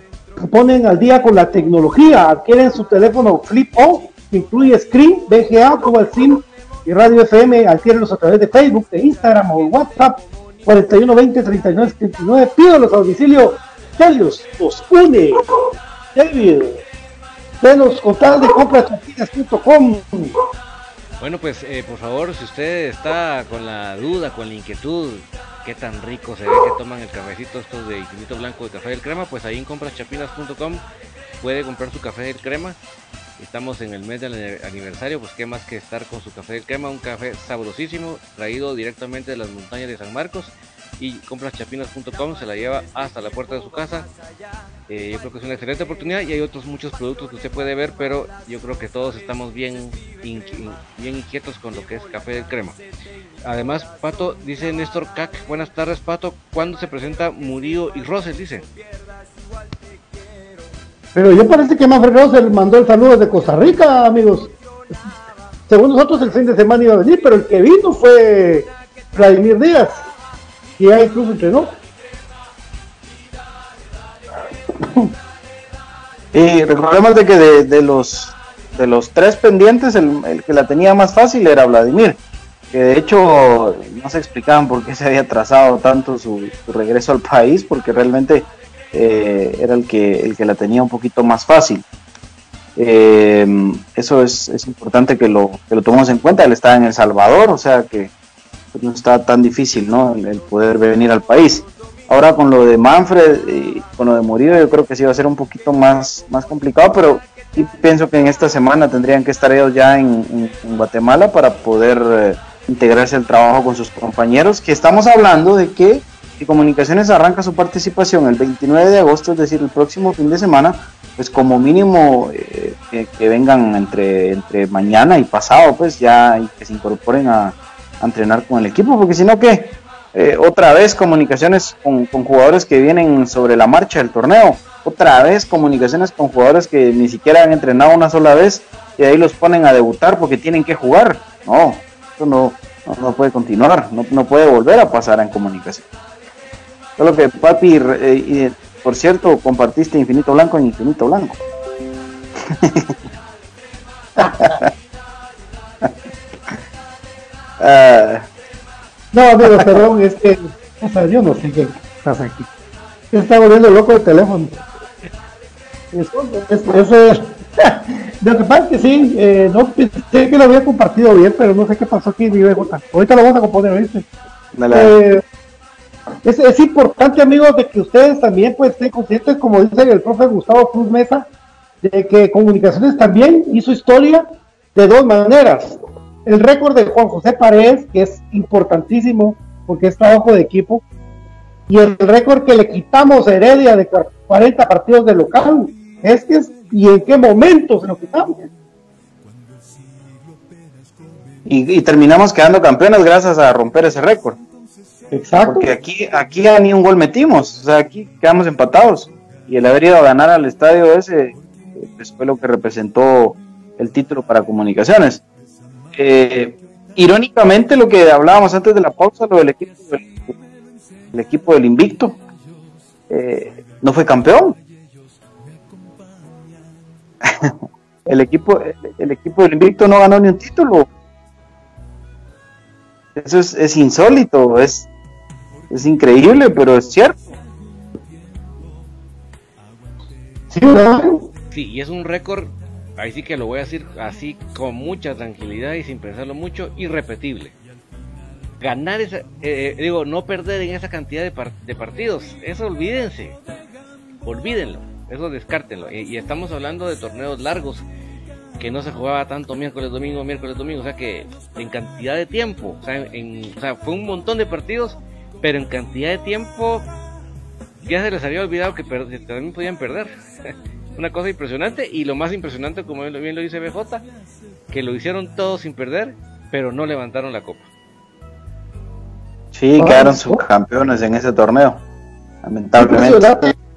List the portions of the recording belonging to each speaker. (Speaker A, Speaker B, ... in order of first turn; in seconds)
Speaker A: 0.4-15.4, 16.1-16.8, 17.6-20.3, 61.1-64.5, 65.7-70.1, 70.8-71.8, 154.2-154.6, 159.1-162.5, 163.1-164.6, 165.9-174.1, 174.7-175.2, 176.2-181.3, 181.8-190.8, 191.7-198.5, 205.1-205.7, 240.5-241.3, 279.8-280.4, 282.8-283.5
Speaker B: 21.2-30.8, 31.4-32.8, 33.4-44.1, 44.9-52.8, 53.4-58.7, 241.5-247.6, 248.6-253.4, 254.2-257.8, 258.6-266.9, 267.8-274.1, 274.7-277.6
Speaker C: 76.3-82.2, 82.7-91.8, 92.8-98.1, 98.7-145.9, 147.0-151.4, 152.4-153.0, 154.2-154.7, 157.6-158.3, 174.5-175.0, 201.4-204.4, 205.4-215.2, 215.9-220.4, 221.1-222.2, 223.1-224.6, 227.2-230.9, 233.2-234.9, 235.7-237.4, 279.5-281.8, 282.4-283.4